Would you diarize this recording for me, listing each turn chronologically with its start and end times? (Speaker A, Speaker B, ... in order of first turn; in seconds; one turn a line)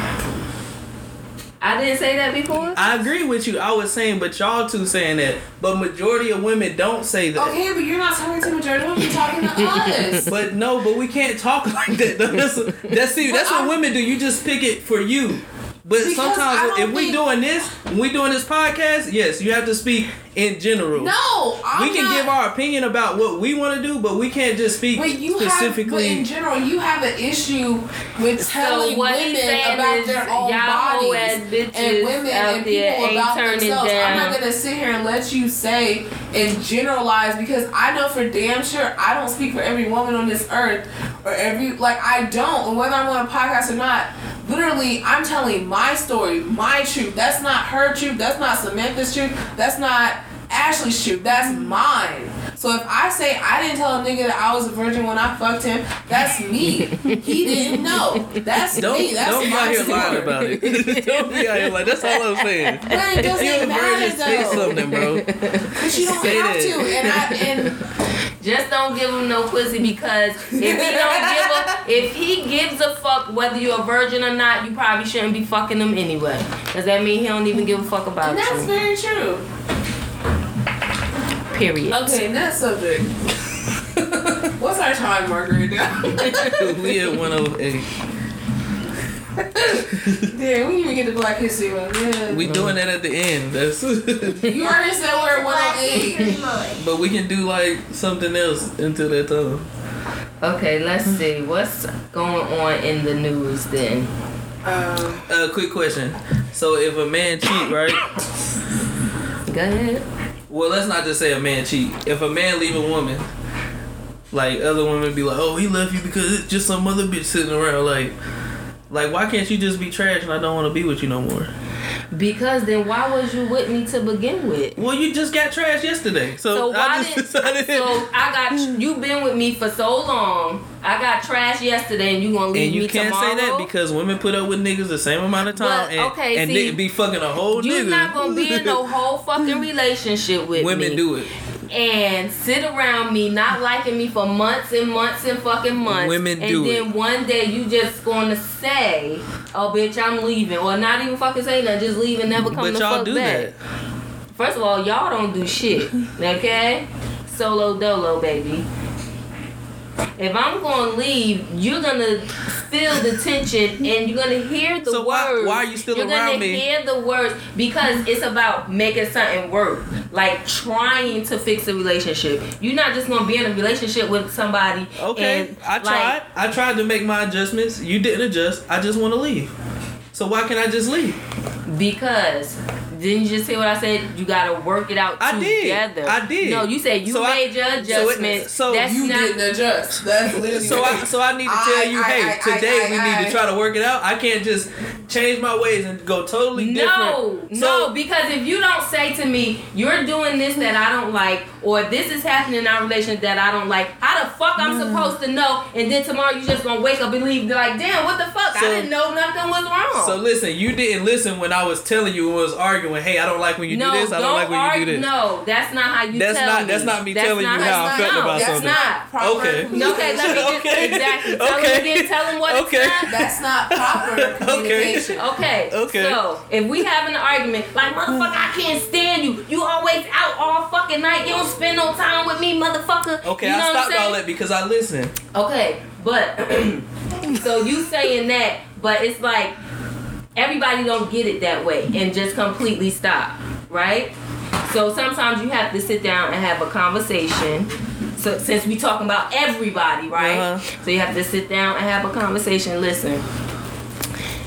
Speaker A: 1.6-3.0
Speaker B: 2.8-7.6
Speaker C: 7.4-10.3
Speaker A: 9.4-10.3
Speaker B: 10.3-21.1
Speaker C: 13.2-13.7
Speaker C: 16.0-17.2
Speaker C: 20.9-22.3
Speaker B: 21.7-26.3
Speaker C: 24.9-60.4
Speaker A: 28.4-34.4
Speaker A: 56.8-66.4
Speaker B: 58.7-65.3
Speaker C: 62.9-64.8
Speaker C: 65.7-67.7
Speaker B: 66.1-67.0
Speaker A: 66.9-67.8
Speaker A: 68.4-78.7
Speaker C: 70.5-71.8
Speaker C: 78.2-79.5
Speaker A: 81.5-82.2
Speaker C: 81.9-83.1
Speaker C: 84.4-86.7
Speaker A: 86.1-86.9
Speaker B: 86.5-87.9
Speaker C: 89.4-92.6
Speaker B: 89.9-90.3
Speaker B: 92.3-94.6
Speaker A: 92.5-92.8
Speaker C: 94.4-96.7
Speaker A: 95.5-96.6
Speaker B: 96.8-99.7
Speaker A: 100.4-104.1
Speaker C: 104.7-105.2
Speaker B: 105.3-108.0
Speaker A: 109.5-110.0
Speaker B: 110.5-113.3
Speaker B: 114.3-118.2
Speaker B: 118.9-121.5
Speaker A: 122.1-124.8
Speaker B: 124.8-128.8
Speaker A: 126.5-133.7
Speaker B: 132.5-138.8
Speaker A: 135.6-136.8
Speaker A: 137.5-141.0
Speaker B: 140.6-141.3
Speaker A: 141.7-153.5
Speaker B: 145.8-146.9
Speaker B: 152.5-153.6
Speaker A: 154.4-158.7
Speaker A: 160.2-176.2
Speaker B: 164.8-166.6
Speaker B: 175.0-179.5
Speaker B: 180.1-181.2
Speaker A: 181.7-189.4
Speaker B: 185.2-188.9
Speaker C: 188.8-193.4
Speaker B: 190.3-197.9
Speaker A: 196.6-210.2
Speaker B: 204.6-205.2
Speaker B: 208.5-208.9
Speaker B: 209.9-215.1
Speaker A: 213.7-219.1
Speaker B: 216.1-226.2
Speaker C: 217.5-220.6
Speaker A: 219.7-223.1
Speaker C: 223.1-225.2
Speaker A: 225.2-234.2
Speaker B: 233.2-235.2
Speaker A: 235.3-239.5
Speaker A: 240.4-244.1
Speaker A: 244.7-253.2
Speaker B: 250.2-250.6